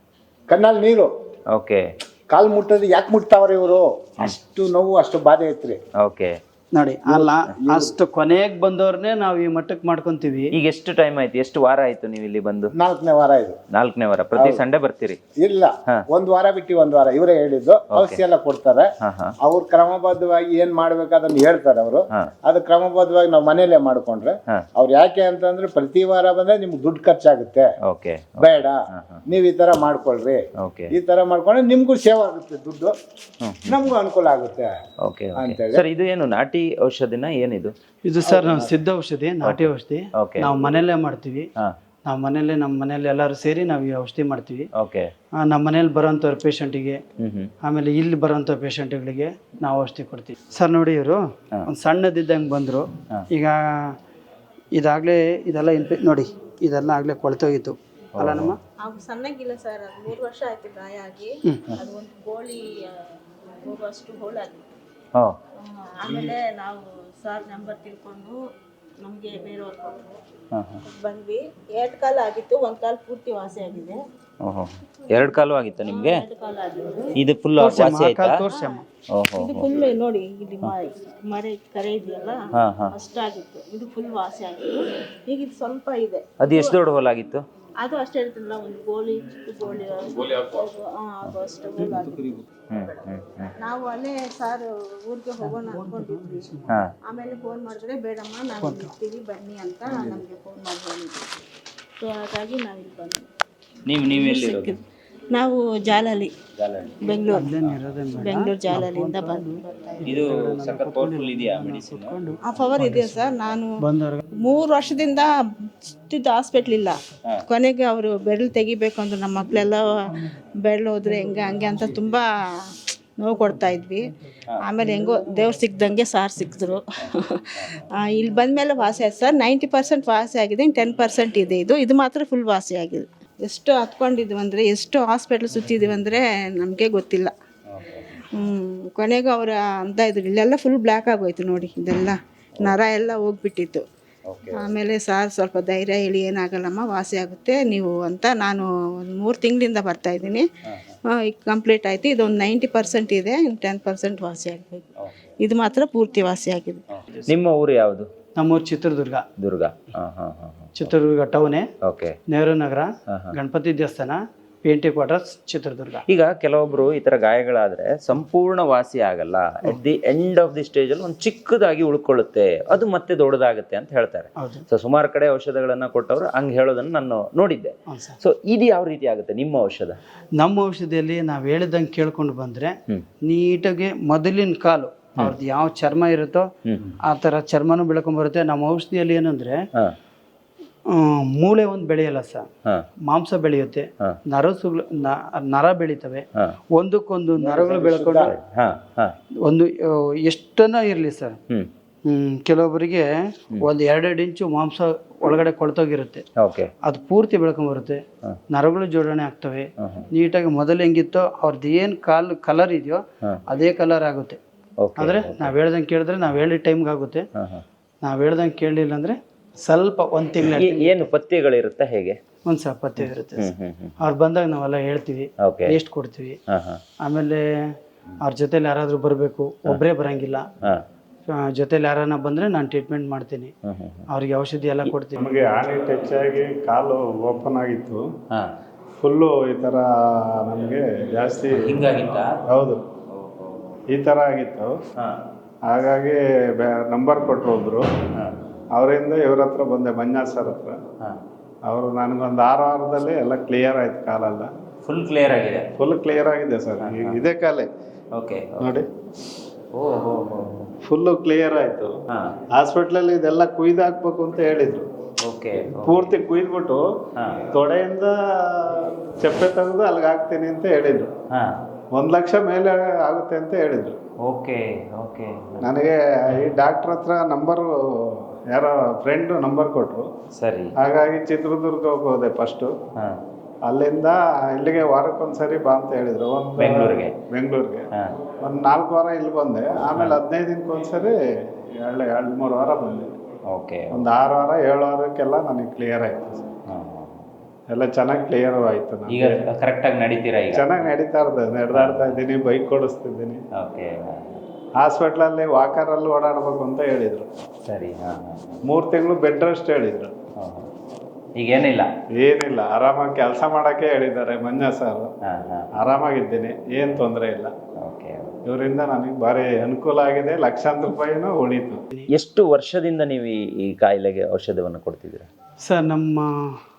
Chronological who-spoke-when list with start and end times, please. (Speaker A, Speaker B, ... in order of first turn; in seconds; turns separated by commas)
Speaker A: 0.5-1.1, Speaker B: 1.5-1.9, Speaker A: 2.3-5.8, Speaker B: 6.0-6.4, Speaker C: 6.7-10.5, Speaker A: 7.1-7.9, Speaker B: 10.5-12.7, Speaker A: 12.8-13.6, Speaker B: 13.7-15.2, Speaker A: 14.4-14.6, Speaker A: 15.4-18.9, Speaker B: 17.9-18.2, Speaker B: 19.0-19.4, Speaker A: 19.4-27.7, Speaker B: 27.9-29.2, Speaker A: 28.4-32.9, Speaker B: 30.6-30.9, Speaker B: 33.4-33.8, Speaker A: 33.6-34.7, Speaker B: 35.0-37.7, Speaker A: 35.4-35.9, Speaker C: 38.1-41.5, Speaker A: 38.2-38.7, Speaker B: 40.2-40.5, Speaker C: 42.1-44.7, Speaker B: 44.8-45.1, Speaker C: 45.4-47.0, Speaker B: 47.2-47.5, Speaker C: 47.6-54.0, Speaker C: 54.8-58.6, Speaker B: 58.2-58.5, Speaker D: 58.8-64.7, Speaker D: 65.6-68.4, Speaker D: 69.0-70.2, Speaker B: 70.5-70.8, Speaker D: 70.8-74.0, Speaker B: 74.4-76.2, Speaker D: 75.9-77.2, Speaker B: 77.2-78.4, Speaker C: 77.6-78.8, Speaker D: 78.5-78.7, Speaker B: 79.1-79.7, Speaker D: 79.4-86.8, Speaker B: 82.6-83.0, Speaker B: 86.4-87.4, Speaker D: 87.8-92.4, Speaker B: 92.7-93.5, Speaker D: 93.6-101.2, Speaker B: 96.7-96.9, Speaker D: 102.0-103.3, Speaker B: 103.9-104.8, Speaker D: 104.0-104.8, Speaker D: 105.3-106.3, Speaker B: 106.6-107.0, Speaker D: 107.0-107.5, Speaker C: 107.3-113.2, Speaker D: 108.1-110.0, Speaker B: 110.0-112.2, Speaker D: 112.4-113.7, Speaker C: 113.8-114.2, Speaker D: 114.4-115.3, Speaker D: 116.1-117.0, Speaker D: 117.5-120.0, Speaker D: 120.6-122.3, Speaker D: 123.2-124.0, Speaker D: 124.6-137.3, Speaker B: 137.7-138.2, Speaker D: 138.3-143.8, Speaker B: 144.3-144.7, Speaker D: 144.6-150.4, Speaker D: 151.1-154.9, Speaker D: 155.4-156.8, Speaker B: 156.9-158.1, Speaker C: 158.4-159.3, Speaker B: 159.4-160.9, Speaker C: 160.8-161.7, Speaker B: 161.8-162.2, Speaker C: 162.3-166.0, Speaker B: 166.1-180.0, Speaker C: 174.4-174.7, Speaker C: 177.9-178.2, Speaker C: 180.4-186.5, Speaker B: 186.7-186.9, Speaker C: 187.0-189.7, Speaker C: 190.9-192.5, Speaker C: 193.1-198.3, Speaker A: 197.4-198.3, Speaker B: 198.2-199.2, Speaker C: 199.4-201.4, Speaker C: 202.1-206.2, Speaker B: 206.4-206.7, Speaker C: 206.8-214.4, Speaker B: 209.8-210.1, Speaker B: 214.8-215.5, Speaker C: 215.0-217.3, Speaker B: 217.4-217.6, Speaker C: 218.0-221.1, Speaker B: 220.5-222.2, Speaker C: 222.5-226.4, Speaker B: 223.4-224.0, Speaker B: 225.4-225.8, Speaker B: 226.5-226.8, Speaker C: 227.0-230.5, Speaker C: 231.3-233.5, Speaker B: 233.7-234.1, Speaker C: 234.1-235.2, Speaker E: 235.2-238.0, Speaker E: 239.0-241.9, Speaker B: 241.5-242.4, Speaker E: 242.5-242.8, Speaker B: 243.1-243.6, Speaker E: 243.9-244.8, Speaker E: 245.7-247.9, Speaker E: 248.7-250.8, Speaker E: 251.7-254.5, Speaker B: 254.8-255.7, Speaker E: 255.8-257.7, Speaker B: 256.8-257.2, Speaker B: 258.1-258.8, Speaker E: 258.6-258.9, Speaker B: 259.7-260.7, Speaker E: 260.8-261.9, Speaker B: 262.1-262.4, Speaker E: 262.5-264.9, Speaker B: 265.2-266.1, Speaker E: 265.8-266.8, Speaker B: 267.2-267.4, Speaker E: 267.5-271.1, Speaker B: 271.3-271.6, Speaker E: 271.9-274.0, Speaker B: 274.2-275.6, Speaker E: 275.6-280.1, Speaker B: 280.4-280.7, Speaker E: 280.8-282.7, Speaker B: 283.0-283.2, Speaker E: 283.7-287.9, Speaker B: 286.6-287.1, Speaker E: 288.4-291.2, Speaker E: 291.7-293.1, Speaker B: 293.5-294.1, Speaker E: 293.9-296.5, Speaker B: 296.7-297.3, Speaker E: 297.7-299.4, Speaker B: 299.1-300.9, Speaker E: 300.5-303.4, Speaker B: 301.7-302.2, Speaker B: 303.5-304.4, Speaker E: 304.8-307.3, Speaker B: 307.7-308.6, Speaker E: 308.6-310.1, Speaker B: 310.4-310.7, Speaker B: 311.4-311.9, Speaker E: 312.2-315.1, Speaker B: 315.2-315.7, Speaker E: 315.8-317.5, Speaker B: 317.8-318.4, Speaker E: 318.5-321.8, Speaker B: 322.1-325.3, Speaker C: 325.6-326.6